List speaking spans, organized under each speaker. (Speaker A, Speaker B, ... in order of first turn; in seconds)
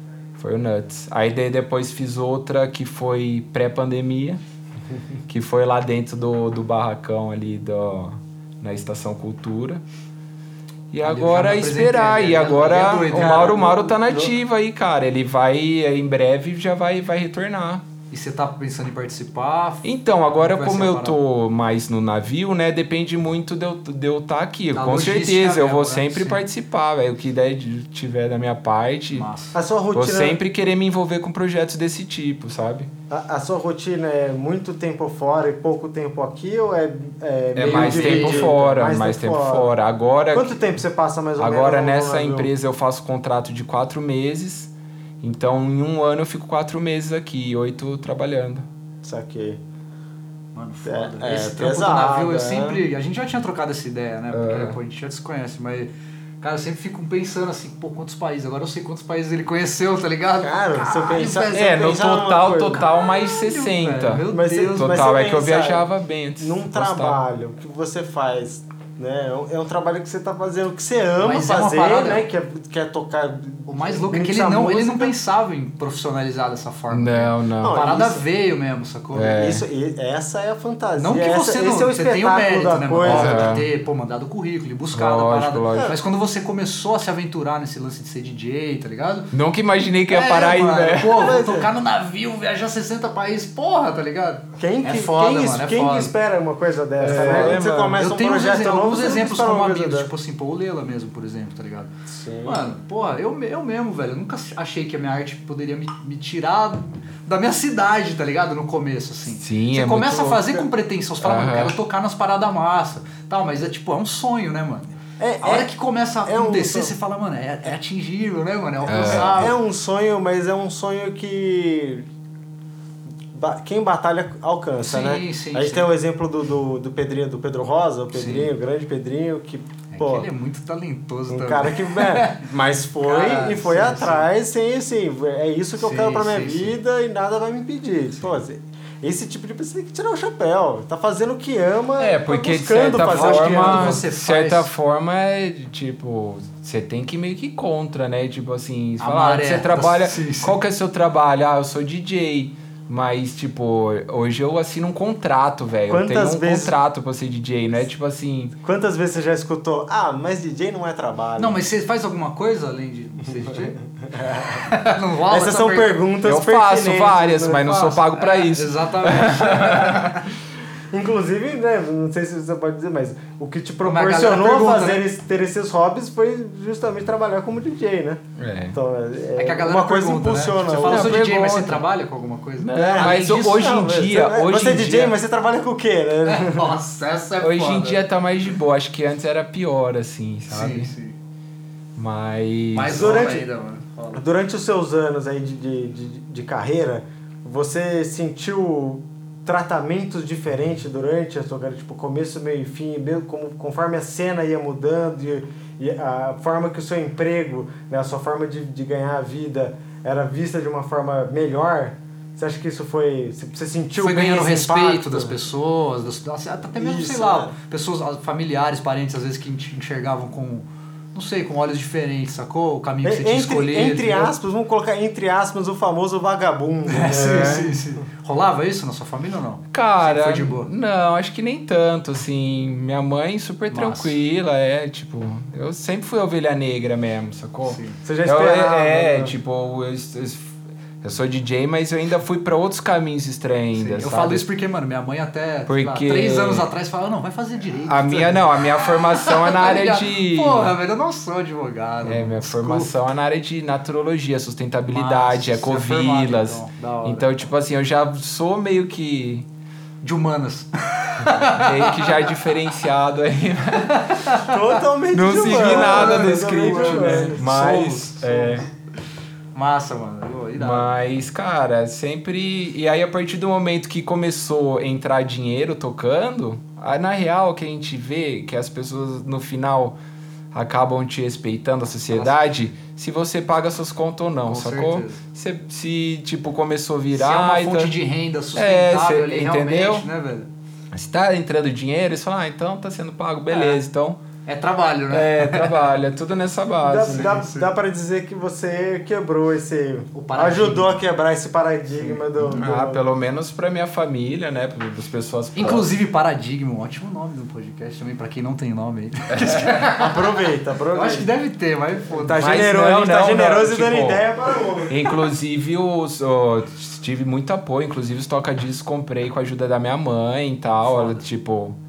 Speaker A: 0.4-4.4, 5.3-9.8, 10.9-17.8, 19.8-29.3, 29.9-32.9, 37.5-40.7, 41.4-44.7, 45.2-48.6, 54.3-54.8, 61.5-67.2, 76.9-77.8, 79.1-79.6, 83.0-83.7, 84.9-85.9, 89.3-91.3, 97.0-98.0, 109.4-110.6, 111.2-111.8, 118.9-119.5, 142.0-158.5, 166.2-170.2, 178.4-178.8, 180.8-181.8, 182.6-185.1, 187.4-190.9, 191.9-193.3, 227.1-227.7, 229.7-244.4, 245.7-246.7, 247.9-250.7, 252.0-259.4, 261.5-264.2, 265.1-268.6, 270.6-279.9, 280.5-287.9, 288.5-290.1, 290.9-294.2, 295.1-297.4, 302.4-305.9, 309.4-309.7, 312.4-314.2, 314.9-321.7
Speaker B: 11.0-13.6, 18.1-21.2, 24.7-26.4, 29.1-29.6, 37.6-38.6, 50.5-61.9, 62.9-65.1, 71.2-72.2, 73.7-79.5, 81.0-89.3, 90.1-96.1, 97.0-101.9, 102.4-119.5, 124.8-125.9, 128.1-128.5, 129.9-132.4, 133.0-134.3, 135.8-136.8, 143.0-144.7, 149.0-150.6, 161.4-166.0, 167.7-170.3, 173.8-175.0, 179.4-183.4, 186.2-188.0, 190.5-191.2, 192.7-194.2, 214.0-224.3, 226.8-230.7, 233.7-234.2, 237.6-238.0, 243.8-252.9, 254.9-257.3, 260.0-262.2, 263.8-264.5, 265.5-268.6, 269.5-270.9, 282.1-282.4, 284.5-285.2, 287.1-290.5, 293.5-293.8, 294.4-295.8, 297.1-297.7, 300.1-301.0, 305.6-310.2, 310.9-312.6, 320.8-321.2
Speaker C: 13.1-14.3, 29.5-30.4, 33.1-39.7, 40.3-42.5, 49.0-49.6, 50.8-52.8, 60.4-62.9, 64.3-65.8, 66.4-75.1, 77.6-78.2, 79.3-83.5, 91.1-91.7, 94.6-100.1, 102.1-102.6, 115.2-115.7, 116.3-116.9, 119.0-122.0, 123.3-130.3, 131.3-144.0, 155.9-156.7, 158.6-161.6, 164.1-164.6, 165.3-167.7, 170.9-178.2, 178.7-181.2, 182.7-186.7, 192.8-193.4, 194.1-215.3, 216.8-217.5, 223.0-227.7, 238.0-239.3, 264.4-267.5, 296.8-303.0, 309.9-311.3, 312.1-315.1